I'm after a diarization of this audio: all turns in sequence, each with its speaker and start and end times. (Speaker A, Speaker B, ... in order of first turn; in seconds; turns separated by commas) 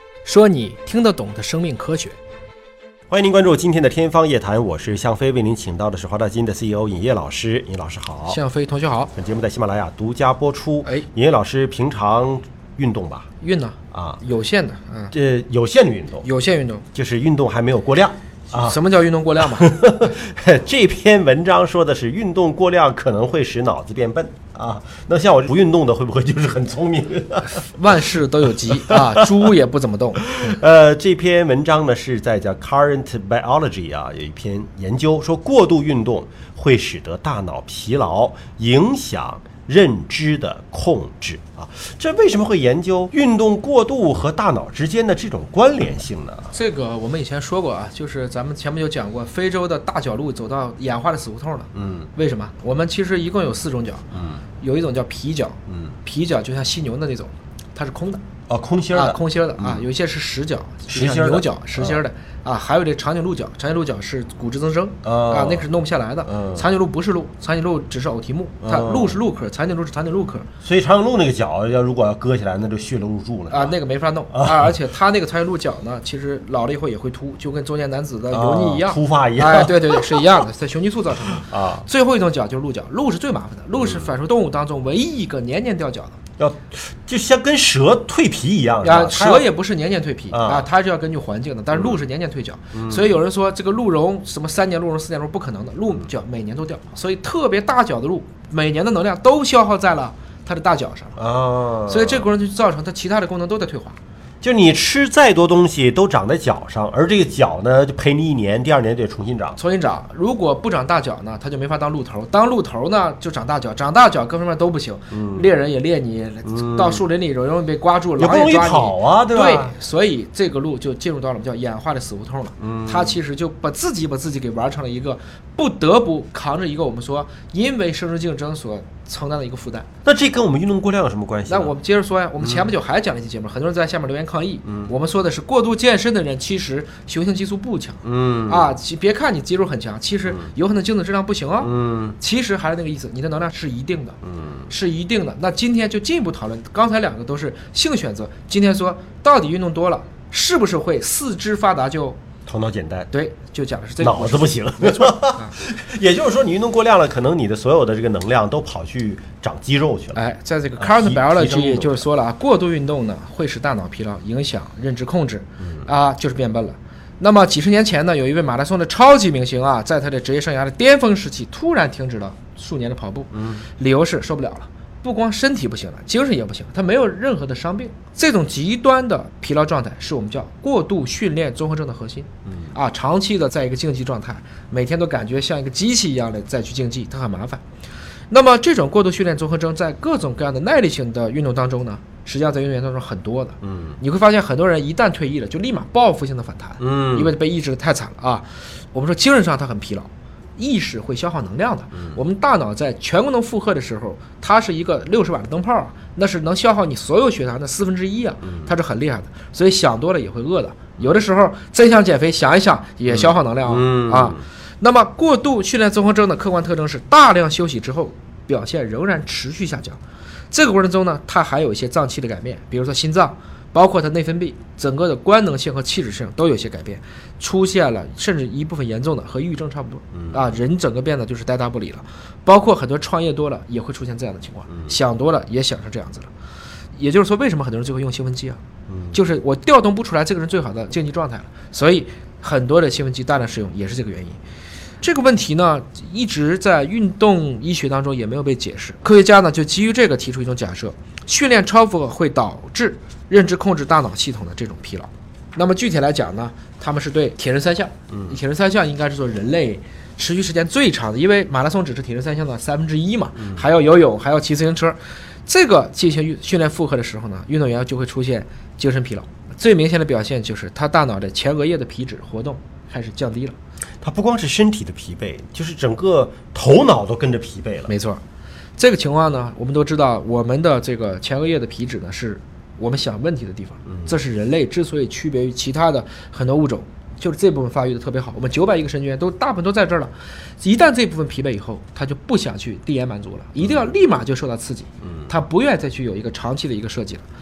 Speaker A: 0.2-2.2, Speaker B: 3.1-8.4, Speaker A: 8.3-9.1, Speaker B: 9.2-13.3, Speaker A: 13.4-15.1, Speaker B: 13.9-14.2, Speaker B: 15.1-16.3, Speaker A: 16.2-16.9, Speaker B: 16.9-18.8, Speaker A: 18.5-19.8, Speaker B: 19.4-28.1, Speaker A: 27.6-30.5, Speaker B: 28.7-29.3, Speaker B: 30.2-46.5, Speaker A: 46.5-54.0, Speaker B: 51.7-52.1, Speaker B: 54.1-54.4, Speaker A: 54.6-58.2, Speaker B: 55.7-55.9, Speaker B: 58.5-59.8, Speaker A: 58.9-70.5, Speaker B: 60.9-62.0, Speaker B: 65.0-65.7, Speaker B: 66.3-66.7, Speaker B: 68.6-69.2, Speaker B: 70.6-73.7, Speaker A: 73.5-86.2, Speaker B: 74.3-74.7, Speaker B: 78.3-80.3, Speaker B: 81.4-81.9, Speaker B: 83.8-84.1, Speaker B: 86.4-89.5, Speaker A: 88.8-101.2, Speaker B: 90.3-90.7, Speaker B: 92.7-93.1, Speaker B: 101.2-102.3, Speaker A: 101.9-104.0, Speaker B: 104.4-109.6, Speaker A: 109.6-129.9, Speaker B: 115.1-115.5, Speaker B: 116.5-117.0, Speaker B: 118.2-119.8, Speaker B: 122.6-123.2, Speaker B: 130.1-131.7, Speaker A: 131.5-152.2, Speaker B: 132.4-132.7, Speaker B: 134.7-134.9, Speaker B: 138.0-138.8, Speaker B: 141.6-142.2, Speaker B: 144.2-144.7, Speaker B: 152.5-153.1, Speaker A: 153.1-155.5, Speaker B: 154.0-160.2, Speaker A: 160.2-187.6, Speaker B: 160.8-162.0, Speaker B: 173.3-173.6, Speaker B: 182.5-182.7, Speaker A: 188.3-220.0, Speaker B: 193.6-194.0, Speaker B: 196.8-197.3, Speaker B: 201.9-202.2, Speaker B: 213.1-214.4, Speaker A: 220.5-236.3, Speaker B: 230.1-230.4, Speaker A: 236.9-238.6, Speaker B: 238.9-239.2, Speaker A: 239.1-244.4, Speaker A: 245.0-273.6, Speaker B: 258.1-258.4, Speaker B: 263.4-263.7, Speaker B: 274.0-277.9, Speaker A: 277.9-278.2, Speaker A: 278.8-297.2